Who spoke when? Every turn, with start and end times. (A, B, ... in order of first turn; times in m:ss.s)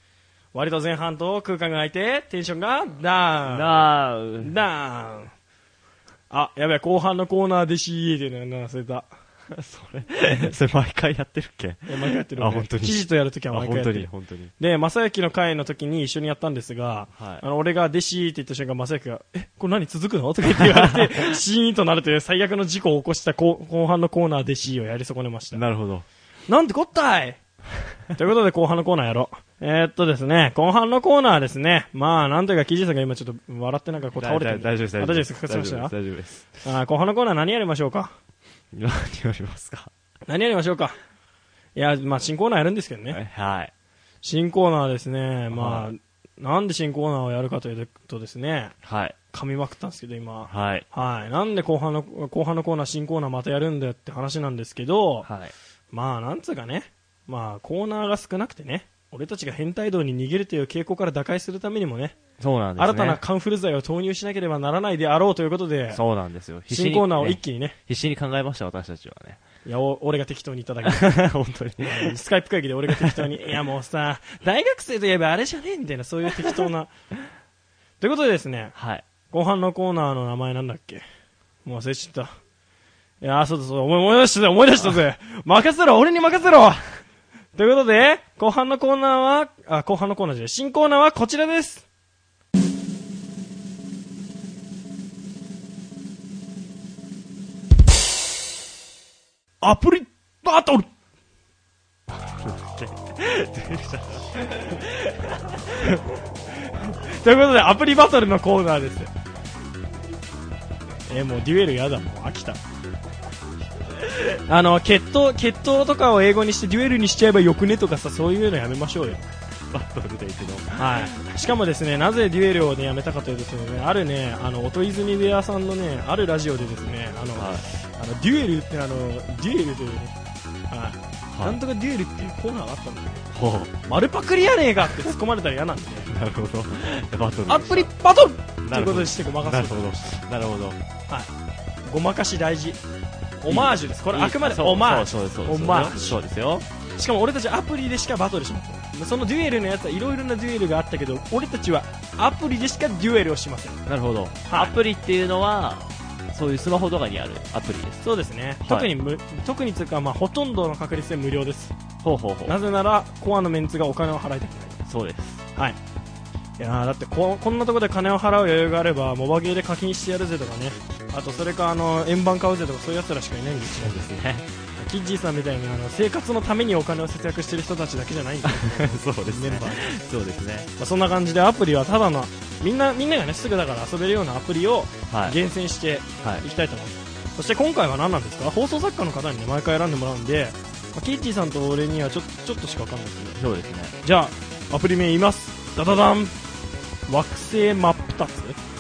0:00.5-0:03.9 A
0:03.5-0:04.5 B
0:04.4-0:05.3 A
0:06.3-0:09.1 A
0:09.5-0:14.5 B
0:11.9-0:25.6 A
0:17.2-0:17.4 B
0:20.5-0:21.2 B
0:25.5-0:26.1 B
0:26.5-0:27.4 A
0:28.1-0:35.9 A
0:34.2-0:36.6 B
0:36.6-0:38.1 A
0:38.7-0:39.9 B
0:40.3-0:41.0 A
0:41.8-0:43.2 A
0:43.1-0:43.7 B
0:44.2-0:48.8 A
0:45.5-0:45.9 B
0:48.8-0:49.2 B
0:49.3-0:55.3 A
0:50.5-0:50.9 B
0:55.2-0:55.5 B
0:55.9-1:02.2 A
1:02.4-1:03.2 B
1:02.8-1:06.0 A
1:05.9-1:09.4 B
1:06.7-1:07.8 A
1:09.6-1:11.2 A
1:10.8-1:12.2 B
1:11.8-1:16.9 A
1:12.9-1:13.3 B
1:18.0-1:18.7 A
1:18.8-1:19.0 B
1:19.3-1:21.0 A
1:21.6-1:22.3 A
1:23.2-1:26.8 A
1:27.6-1:31.8 A
1:39.6-1:40.9 A
1:42.1-1:45.6 B
1:46.9-1:49.1 A
1:51.1-1:52.6 A
1:54.5-1:59.3 A
1:59.7-2:01.3 B
2:00.8-2:10.2 A
2:07.4-2:07.6 B
2:10.7-2:13.2 A
2:11.3-2:11.6 B
2:13.3-2:13.7 B
2:13.8-2:16.1 A
2:16.1-2:17.9 B
2:17.5-2:20.1 A
2:18.6-2:20.8 B
2:21.9-2:22.8 A
2:23.4-2:26.2 A
2:23.5-2:26.7 B
2:27.0-2:33.8 A
2:33.9-2:38.0 B
2:34.5-2:34.7 A
2:38.0-2:41.8 A
2:38.6-2:38.9 B
2:42.0-2:42.6 B
2:42.5-2:44.8 A
2:44.9-2:45.4 B
2:46.6-2:54.0 A
2:53.6-2:54.5 B
2:54.8-2:59.9 A
2:58.4-3:00.7 B
3:00.8-3:13.4 A
3:05.1-3:05.4 B
3:13.4-3:14.0 B
3:14.0-3:16.4 A
3:17.1-3:18.6 A